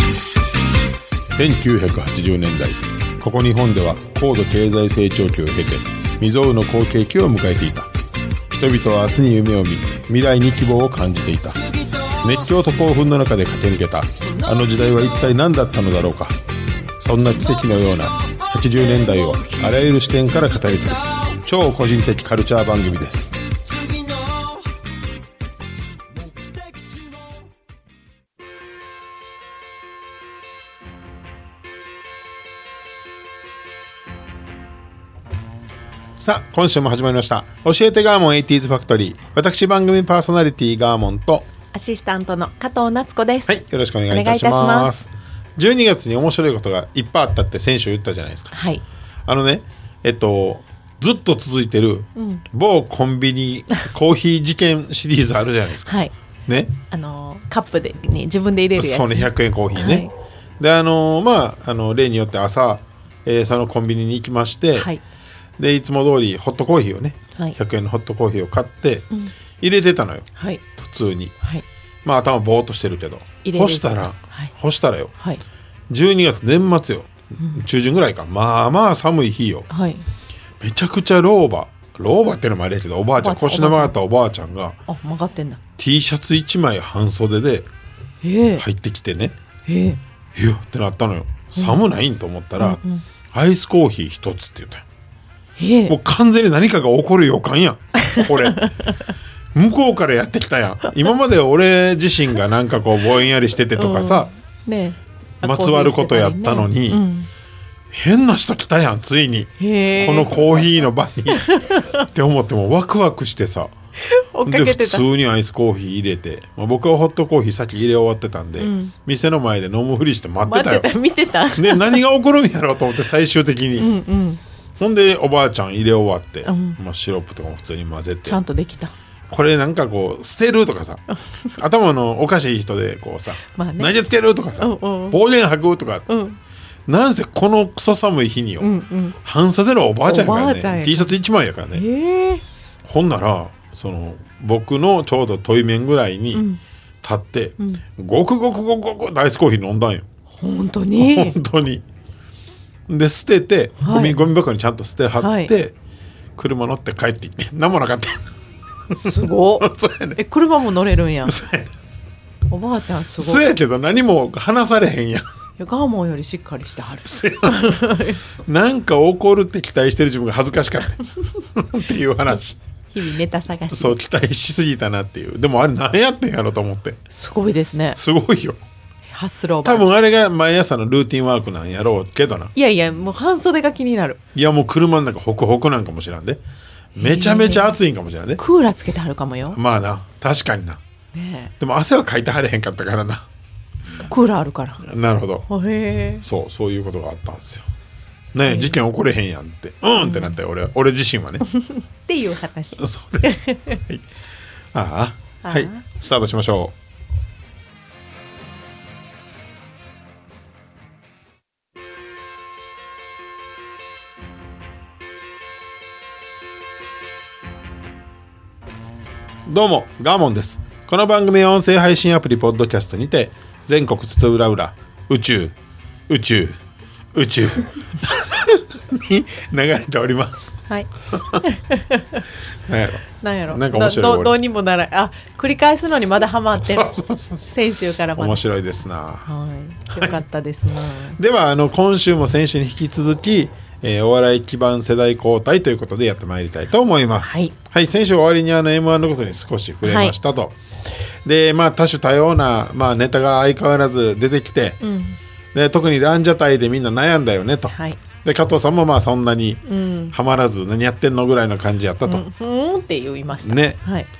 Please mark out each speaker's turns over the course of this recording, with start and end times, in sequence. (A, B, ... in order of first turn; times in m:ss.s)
0:01.3-0:07.9 A
0:08.5-0:11.6 A
0:12.1-0:16.4 A
0:17.0-0:23.3 A
0:36.2-0:41.5 A
0:41.7-0:43.5 B
0:43.5-0:48.5 A
0:44.1-0:45.0 B
0:48.5-0:48.8 B
0:49.2-0:56.8 A
0:52.2-0:52.4 B
0:55.9-0:56.1 B
0:56.9-1:00.1 B
0:58.8-1:04.9 A
1:04.7-1:05.0 B
1:05.6-1:09.1 A
1:09.6-1:11.3 A
1:10.4-1:10.6 B
1:12.0-1:15.1 A
1:13.4-1:14.5 B
1:15.9-1:19.7 A
1:19.7-1:20.0 B
1:20.6-1:24.8 A
1:23.2-1:23.9 B
1:24.9-1:25.6 B
1:25.8-1:27.7 A
1:28.2-1:28.6 B
1:28.6-1:29.4 A
1:29.6-1:30.0 B
1:30.3-1:32.8 A
1:31.5-1:31.8 B
1:32.6-1:33.0 B
1:33.3-1:34.8 A
1:35.6-1:36.0 B
1:35.9-1:38.7 A
1:38.0-1:38.9 B
1:39.5-1:44.3 A
1:43.7-1:47.3 B
1:45.4-1:47.0 A
1:47.9-1:53.7 A
1:49.6-1:50.6 B
1:51.3-1:52.0 B
1:54.0-1:55.0 B
1:54.4-2:00.9 A
1:58.6-1:58.9 B
2:00.4-2:02.0 B
2:01.5-2:03.9 A
2:03.8-2:04.4 B
2:04.8-2:08.4 A
2:06.4-2:06.8 B
2:08.2-2:08.9 B
2:09.3-2:11.0 A
2:11.6-2:16.1 A
2:13.5-2:14.0 B
2:14.6-2:15.2 B
2:16.1-2:16.4 B
2:16.9-2:18.7 A
2:18.6-2:19.2 B
2:19.2-2:21.8 A
2:20.0-2:21.1 B
2:21.7-2:22.4 B
2:22.8-2:26.4 A
2:26.3-2:26.6 B
2:27.0-2:30.0 A
2:30.4-2:31.4 B
2:31.0-2:31.8 A
2:32.9-2:35.7 A
2:33.8-2:34.3 B
2:35.2-2:35.5 B
2:36.4-2:38.2 A
2:38.9-2:40.2 A
2:38.9-2:41.4 B
2:41.2-2:41.7 A
2:42.5-2:43.4 B
2:43.2-2:45.2 A
2:45.6-2:48.2 B
2:47.0-2:52.6 A
2:52.9-2:54.0 B
2:53.7-2:57.0 A
2:57.1-2:58.0 B
2:58.0-2:58.6 A
2:59.1-2:59.9 B
2:59.6-3:02.5 A
3:02.5-3:04.2 B
3:04.3-3:06.4 A
3:07.0-3:07.8 B
3:07.0-3:08.4 A
3:08.4-3:09.6 B
3:09.5-3:10.8 A
3:11.1-3:11.5 B
3:11.6-3:13.3 A
3:14.0-3:14.8 B
3:14.8-3:15.4 A
3:15.5-3:16.2 B
3:16.2-3:17.7 A
3:18.3-3:21.4 A
3:18.4-3:18.8 B
3:20.0-3:20.3 B
3:21.5-3:23.8 B
3:22.8-3:24.0 A
3:24.7-3:26.7 A
3:25.4-3:25.8 B
3:39.4-3:45.5 A
3:46.1-3:46.6 A
3:47.1-3:50.6 A
3:51.1-3:51.4 A
3:51.4-3:52.2 B
3:52.7-3:54.4 A
3:53.2-3:56.9 B
3:56.6-3:57.5 A
3:57.4-3:58.4 B
3:58.1-3:59.2 A
3:59.2-4:01.2 B
4:01.2-4:10.5 A
4:07.2-4:07.5 B
4:09.8-4:10.2 B
4:11.2-4:14.8 A
4:14.8-4:15.2 B
4:15.5-4:22.2 A
4:17.7-4:18.0 B
4:19.6-4:20.1 B
4:22.0-4:24.1 B
4:23.4-4:23.8 A